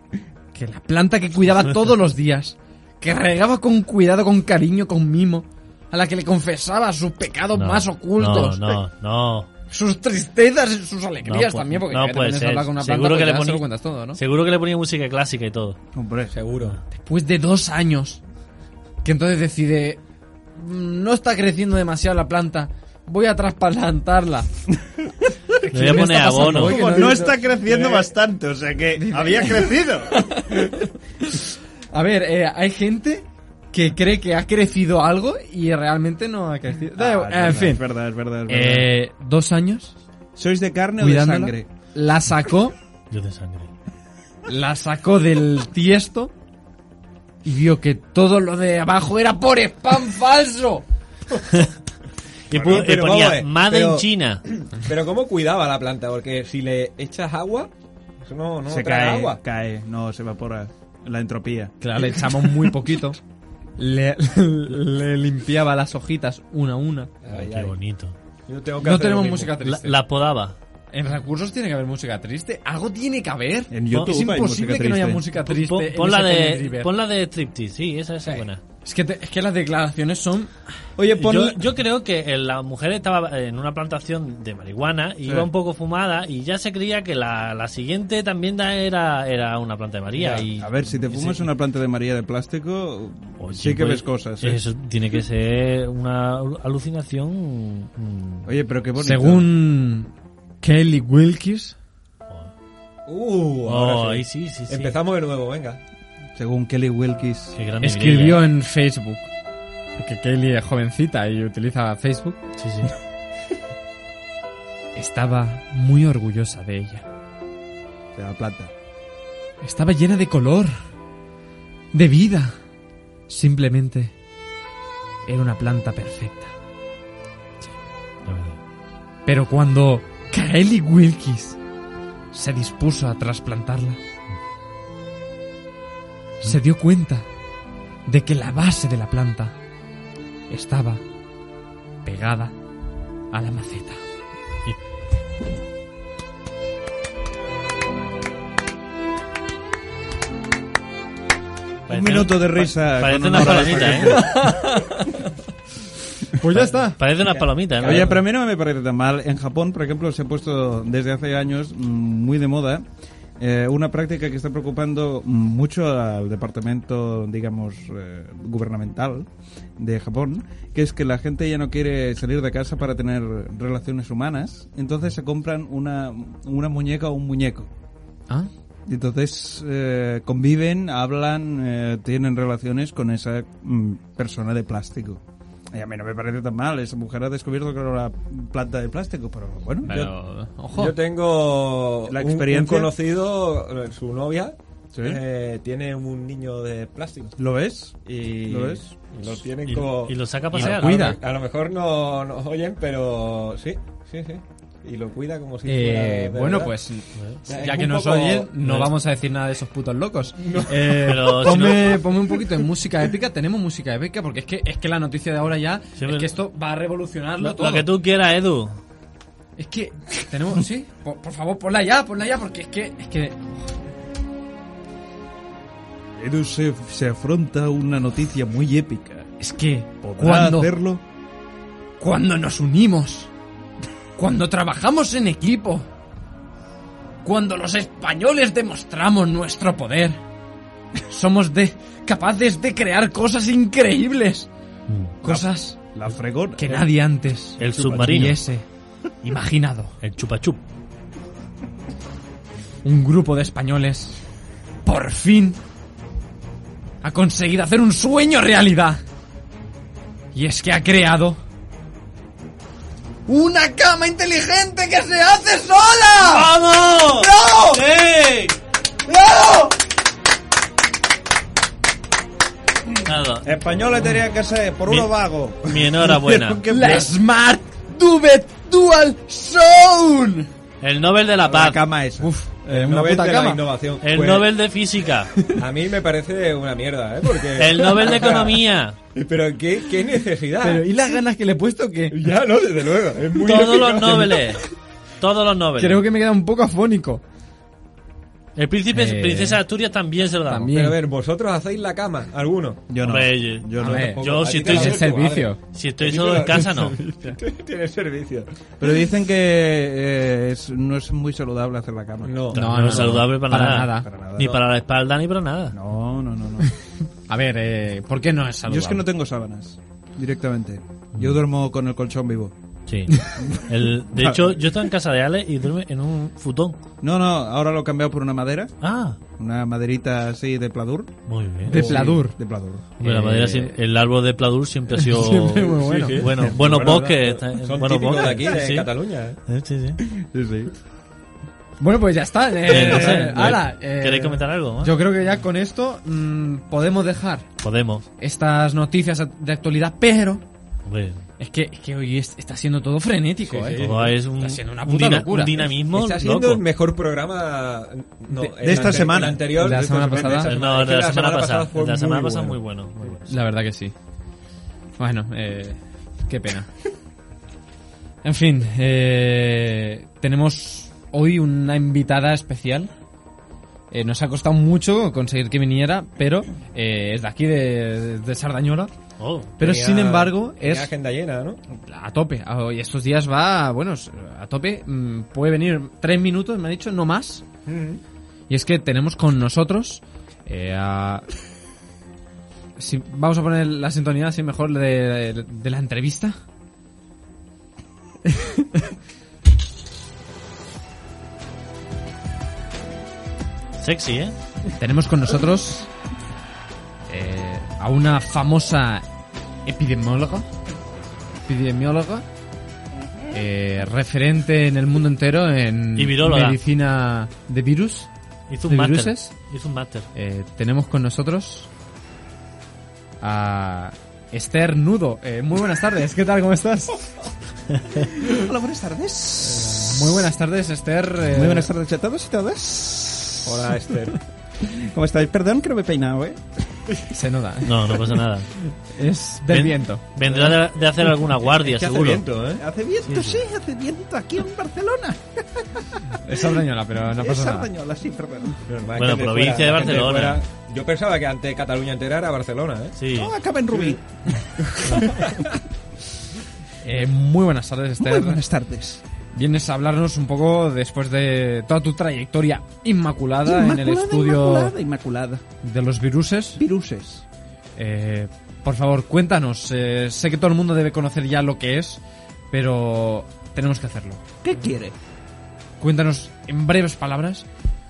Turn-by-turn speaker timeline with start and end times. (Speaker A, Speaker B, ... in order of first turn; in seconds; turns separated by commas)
Speaker A: 0.5-8.8, Speaker B: 7.5-9.5, Speaker A: 9.7-14.2, Speaker B: 11.2-15.8, Speaker C: 15.9-16.3, Speaker D: 16.3-16.8, Speaker A: 16.9-18.2, Speaker A: 19.0-20.0, Speaker A: 20.5-24.5, Speaker A: 25.6-27.4, Speaker B: 25.7-26.8, Speaker C: 26.5-30.3, Speaker D: 26.8-28.1, Speaker A: 29.0-37.8, Speaker C: 36.9-38.9, Speaker A: 38.5-39.9, Speaker C: 40.4-41.6, Speaker A: 41.0-42.7, Speaker B: 43.1-43.7, Speaker A: 44.5-46.3, Speaker A: 47.4-50.8, Speaker B: 52.5-54.4, Speaker C: 52.5-52.9, Speaker D: 52.5-54.0, Speaker D: 54.7-57.7, Speaker D: 58.2-59.4, Speaker C: 58.6-61.8, Speaker A: 61.8-63.2, Speaker A: 63.8-67.1, Speaker D: 67.2-67.7, Speaker B: 67.3-68.1, Speaker D: 68.5-69.5, Speaker A: 68.8-70.0, Speaker B: 69.6-70.5, Speaker A: 70.9-76.9, Speaker C: 73.7-75.2, Speaker B: 75.4-78.6, Speaker A: 78.8-80.5, Speaker C: 81.0-81.6, Speaker B: 81.0-91.3, Speaker D: 90.2-90.5, Speaker C: 90.6-94.6, Speaker B: 93.4-98.5, Speaker C: 98.4-99.5, Speaker A: 99.0-101.8, Speaker D: 103.1-105.8, Speaker B: 103.7-104.9, Speaker C: 106.3-107.5, Speaker B: 107.5-108.4, Speaker A: 107.8-109.3, Speaker A: 110.0-112.4, Speaker B: 112.6-112.9, Speaker A: 114.9-117.0, Speaker C: 118.2-118.7, Speaker A: 119.6-120.7, Speaker A: 121.9-122.6, Speaker A: 123.3-124.1, Speaker A: 125.2-126.5, Speaker B: 128.2-128.6, Speaker A: 129.2-131.6, Speaker A: 132.3-134.0, Speaker A: 136.4-137.2, Speaker A: 138.1-139.5, Speaker A: 140.5-141.0, Speaker A: 142.0-142.5, Speaker A: 143.3-144.0, Speaker B: 151.9-154.4, Speaker C: 151.9-154.5, Speaker A: 154.1-155.2, Speaker A: 156.3-157.0, Speaker B: 156.5-158.2, Speaker C: 157.8-162.8, Speaker D: 157.8-158.1, Speaker C: 163.4-169.3, Speaker C: 169.8-177.7, Speaker C: 178.9-185.2, Speaker C: 185.7-190.0, Speaker A: 189.8-190.9, Speaker D: 190.7-197.3, Speaker C: 192.1-192.9, Speaker C: 194.9-195.2, Speaker C: 197.4-199.3, Speaker D: 198.1-206.7, Speaker B: 199.7-201.1, Speaker A: 200.5-201.2, Speaker A: 205.7-217.9, Speaker D: 207.4-208.5, Speaker B: 208.6-208.9, Speaker D: 210.4-210.7, Speaker B: 210.8-212.1, Speaker B: 216.0-216.3, Speaker B: 217.4-218.8, Speaker A: 219.6-223.6, Speaker C: 226.2-229.3, Speaker A: 229.4-230.7, Speaker C: 230.0-231.0, Speaker A: 232.0-233.3, Speaker A: 234.2-235.8, Speaker A: 237.2-240.2, Speaker A: 241.1-244.5, Speaker B: 244.9-245.1, Speaker A: 245.2-245.8, Speaker C: 245.2-246.9, Speaker A: 246.6-248.7, Speaker B: 247.6-248.4, Speaker C: 247.8-248.1, Speaker A: 249.2-249.9, Speaker B: 250.0-250.6, Speaker A: 252.8-254.2, Speaker A: 254.8-255.6, Speaker A: 257.0-259.0, Speaker A: 260.3-261.4, Speaker A: 263.3-266.5, Speaker B: 266.2-268.6, Speaker A: 267.2-267.8, Speaker A: 269.1-269.7, Speaker B: 273.0-273.5, Speaker C: 273.4-277.1, Speaker B: 275.6-276.6, Speaker A: 276.7-280.5, Speaker B: 280.8-281.8, Speaker C: 281.4-282.3, Speaker A: 282.2-283.6, Speaker D: 282.7-284.5, Speaker B: 284.0-285.3, Speaker D: 285.5-288.6, Speaker B: 287.6-288.9, Speaker D: 289.1-290.8, Speaker A: 290.6-292.2, Speaker D: 292.1-294.5, Speaker B: 293.4-294.6, Speaker B: 295.2-296.0, Speaker A: 295.8-297.2, Speaker B: 298.6-300.7, Speaker A: 298.9-299.6, Speaker A: 300.5-301.0, Speaker D: 300.7-302.8, Speaker C: 302.9-304.2, Speaker B: 303.0-307.0, Speaker D: 303.8-305.5, Speaker A: 303.8-305.6, Speaker D: 306.0-308.5, Speaker A: 307.0-307.4, Speaker C: 308.8-312.4, Speaker D: 312.2-313.1, Speaker B: 312.5-315.7, Speaker A: 312.5-314.1, Speaker C: 314.0-314.6, Speaker C: 315.7-316.7, Speaker A: 317.3-319.1, Speaker C: 318.7-322.5, Speaker B: 322.9-326.8, Speaker C: 324.1-324.6, Speaker C: 327.0-328.7, Speaker B: 328.8-329.2, Speaker C: 329.4-332.8, Speaker B: 331.3-332.0, Speaker A: 331.7-332.4, Speaker A: 333.0-333.7, Speaker B: 333.0-338.9, Speaker A: 334.9-337.1, Speaker D: 335.7-339.4, Speaker C: 338.1-338.7, Speaker B: 339.5-340.0, Speaker C: 340.0-340.7, Speaker A: 341.8-347.5, Speaker B: 342.7-345.0, Speaker C: 342.8-343.3, Speaker D: 342.8-343.6, Speaker B: 347.6-348.0, Speaker A: 348.2-350.4, Speaker B: 350.9-351.2, Speaker A: 351.4-355.7, Speaker D: 353.4-354.1, Speaker B: 353.7-356.6, Speaker D: 355.6-362.6, Speaker A: 358.3-360.5, Speaker C: 358.6-360.5, Speaker B: 360.4-363.3, Speaker A: 363.3-363.9, Speaker A: 365.0-366.7, Speaker A: 368.2-372.9, Speaker A: 373.9-378.9, Speaker B: 379.2-379.5, Speaker A: 379.6-380.9, Speaker D: 379.6-381.6, Speaker A: 381.7-387.4, Speaker D: 387.6-388.0, Speaker A: 388.5-391.2, Speaker A: 392.8-396.3, Speaker A: 398.3-398.8, Speaker B: 403.8-404.3, Speaker A: 404.8-405.9, Speaker A: 407.1-409.0, Speaker A: 409.6-410.5, Speaker A: 411.4-412.2, Speaker A: 413.3-418.1, Speaker B: 415.9-416.6, Speaker B: 418.5-420.1, Speaker A: 418.7-419.3, Speaker A: 420.1-421.7, Speaker A: 423.2-427.0, Speaker C: 428.1-430.3, Speaker A: 429.4-431.7, Speaker C: 431.3-433.7, Speaker D: 433.4-434.2, Speaker C: 434.6-436.4, Speaker A: 437.1-438.0, Speaker B: 437.6-438.5, Speaker A: 438.9-440.0, Speaker B: 439.5-442.2, Speaker D: 440.3-440.5, Speaker D: 441.6-442.6, Speaker C: 441.9-446.5, Speaker B: 443.0-443.4, Speaker A: 446.2-447.7, Speaker C: 447.1-448.6, Speaker D: 448.7-453.0, Speaker B: 449.0-450.4, Speaker B: 452.9-453.4, Speaker C: 453.1-455.2, Speaker A: 456.8-458.4, Speaker C: 458.0-459.0, Speaker A: 459.3-464.7, Speaker C: 463.4-465.4, Speaker A: 465.6-466.6, Speaker C: 466.6-467.2, Speaker A: 467.8-474.2, Speaker C: 474.4-474.9, Speaker A: 475.8-477.4